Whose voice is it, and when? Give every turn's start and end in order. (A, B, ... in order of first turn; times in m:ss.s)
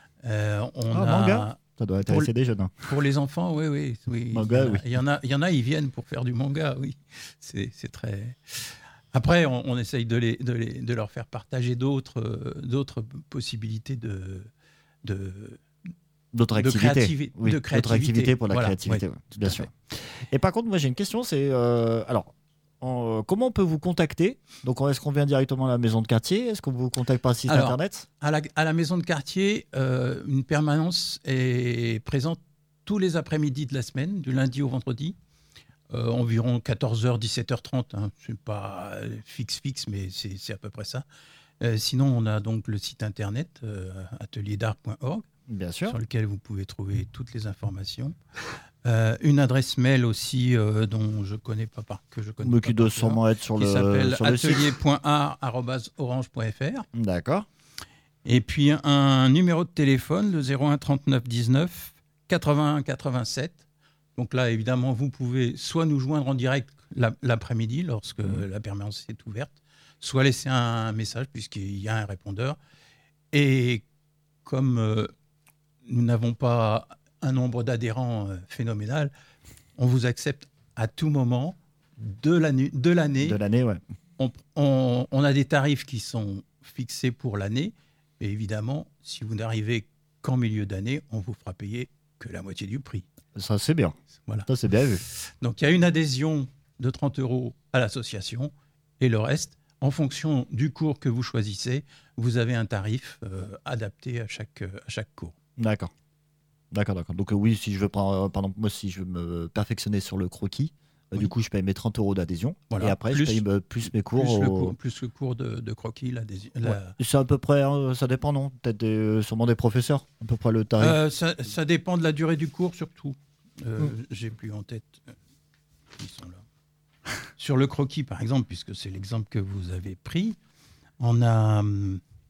0:00.2-0:02.3 A
0:00.9-0:02.9 B
0:02.8-0:14.5 A
0:04.3-0:04.8 B
0:15.0-0:15.6 A
0:16.3-0:19.7 B
0:16.6-0:19.7 A
0:20.3-0:28.0 B
0:27.5-0:35.2 A
0:35.9-0:41.0 A
0:41.6-0:45.2 A
0:45.5-0:46.0 B
0:45.9-0:48.1 A
0:48.8-0:56.9 A
0:52.4-0:54.7 B
0:56.9-0:57.4 B
0:58.2-1:03.6 A
1:04.2-1:12.6 A
1:13.3-1:13.8 A
1:14.4-1:15.1 A
1:15.8-1:19.1 A
1:19.8-1:23.4 A
1:23.2-1:23.8 B
1:24.2-1:33.0 A
1:33.3-1:33.9 B
1:34.4-1:35.0 B
1:35.0-1:45.3 A
1:45.6-1:45.9 B
1:46.7-1:54.8 B
1:52.7-1:53.4 A
1:54.1-1:57.0 A
1:56.6-2:01.0 B
2:00.8-2:05.0 A
2:05.9-2:06.4 A
2:07.4-2:10.4 A
2:11.0-2:12.0 A